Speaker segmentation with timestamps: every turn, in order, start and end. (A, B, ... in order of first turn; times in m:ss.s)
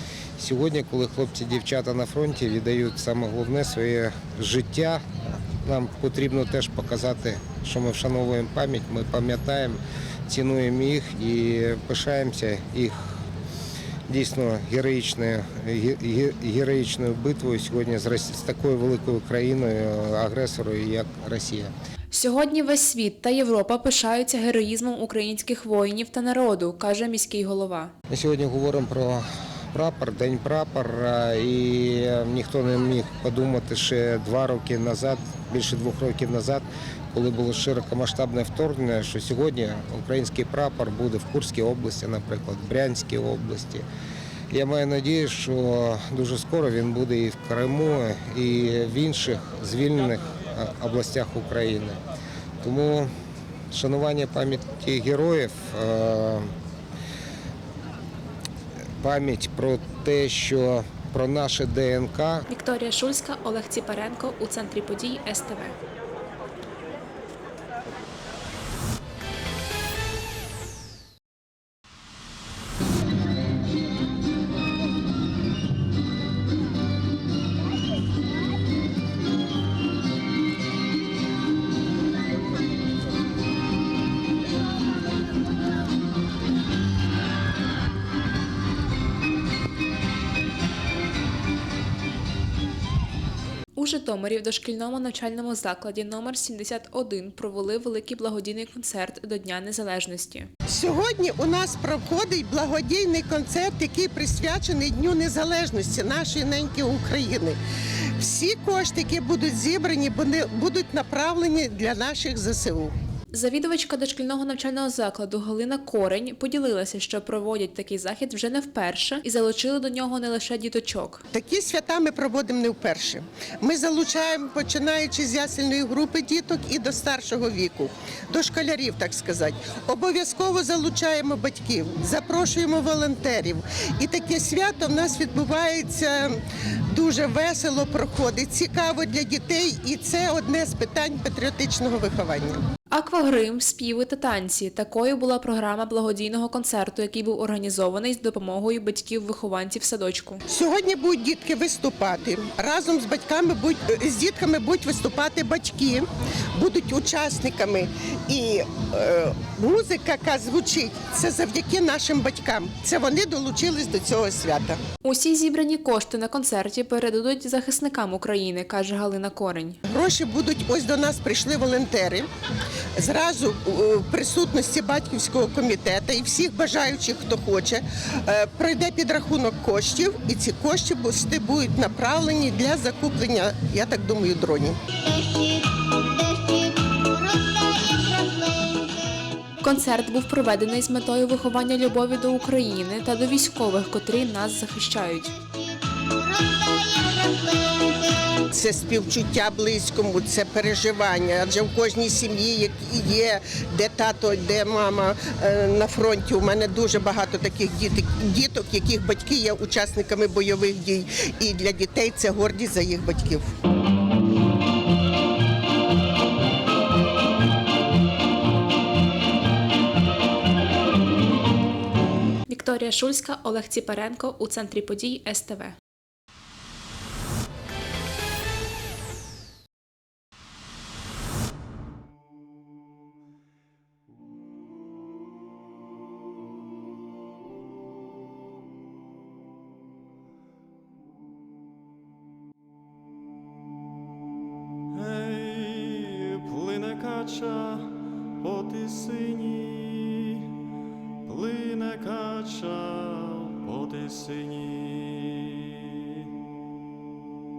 0:00.4-0:13.1 A
0:14.1-0:21.7 A
0:22.1-0:27.9 B
0:28.1-0:43.8 A
0:44.5-0:52.0 A
0:52.6-0:53.1 A
0:53.7-0:56.5 A
0:59.0-1:02.4 A
1:02.5-1:05.8 B
1:33.7-1:40.5 B
1:40.7-1:47.6 C
1:48.2-1:52.9 C
1:53.3-2:01.2 B
2:01.3-2:16.4 C
2:16.9-2:22.6 C
2:22.9-2:30.4 B
2:30.5-2:44.8 C
2:45.0-2:49.8 B
2:49.9-2:52.3 C
2:53.0-3:04.8 C
3:09.6-3:15.3 B
3:18.5-3:33.5 C
3:42.5-3:45.8 B
4:04.9-4:10.4 D
4:11.2-4:16.0 D